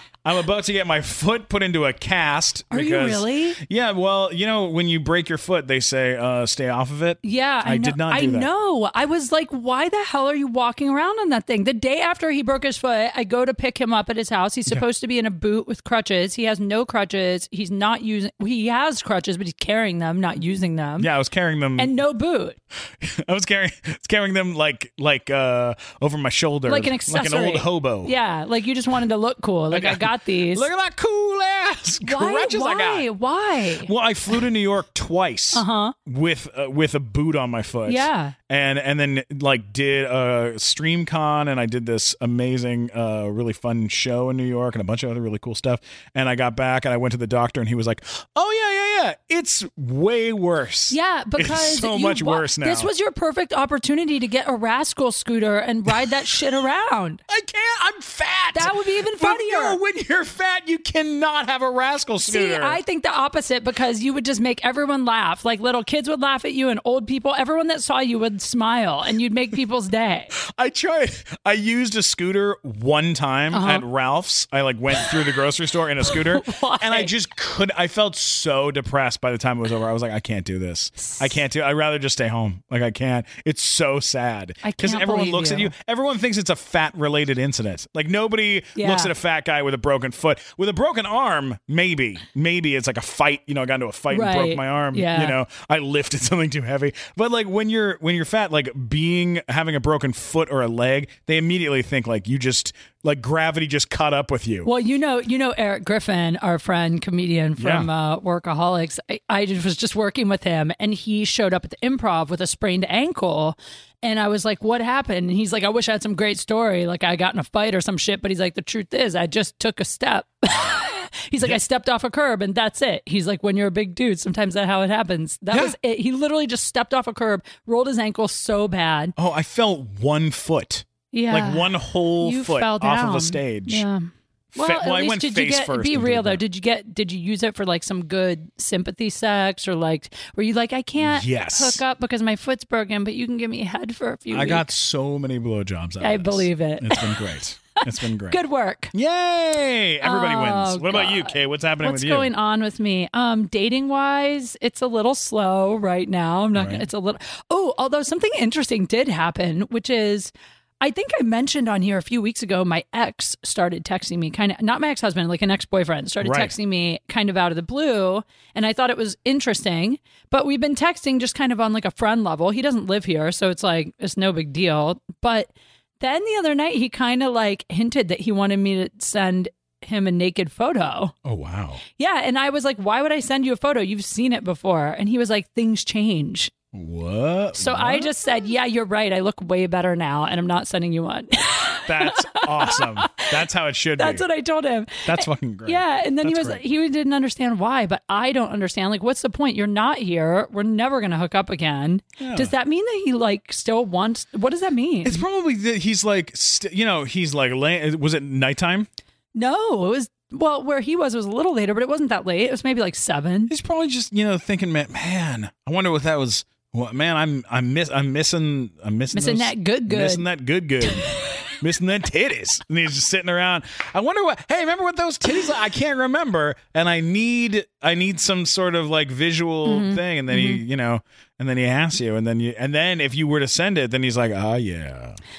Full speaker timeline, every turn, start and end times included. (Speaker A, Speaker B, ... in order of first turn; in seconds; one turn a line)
Speaker A: 0.2-8.5
Speaker B: 2.7-3.6
Speaker B: 7.2-21.1
Speaker A: 21.0-21.9
Speaker B: 21.8-22.6
Speaker A: 23.0-28.1
Speaker B: 26.6-30.7
Speaker A: 29.7-33.1
Speaker B: 32.0-34.4
Speaker A: 33.8-52.9
Speaker B: 35.5-35.9
Speaker B: 37.9-38.3
Speaker B: 50.9-57.2
Speaker A: 57.3-62.8
Speaker B: 58.5-59.8
Speaker B: 62.2-70.3
Speaker A: 70.5-104.7
Speaker B: 73.5-73.8
Speaker B: 76.1-77.1
Speaker B: 81.0-81.3
Speaker B: 84.6-85.7
Speaker B: 88.8-89.1
Speaker B: 94.1-95.3
Speaker B: 104.6-129.1
Speaker A: 107.6-107.9
Speaker A: 129.2-133.8
Speaker B: 131.1-144.7
Speaker A: 134.5-136.4
Speaker A: 141.0-141.8
Speaker A: 144.3-148.4
Speaker B: 146.0-147.2
Speaker B: 148.3-148.9
Speaker A: 148.9-152.3
Speaker B: 150.0-181.1
Speaker A: 156.5-156.8
Speaker A: 166.2-166.5
Speaker A: 181.2-181.8
Speaker B: 182.0-186.5
Speaker A: 186.7-188.1
Speaker B: 187.6-193.3
Speaker A: 191.8-194.2
Speaker B: 194.0-205.2
Speaker A: 195.1-196.6
Speaker A: 202.2-202.5
Speaker A: 205.0-208.9
Speaker B: 209.3-213.5
Speaker A: 213.5-235.2
Speaker B: 219.1-220.2
Speaker B: 220.9-221.3
Speaker B: 229.7-230.6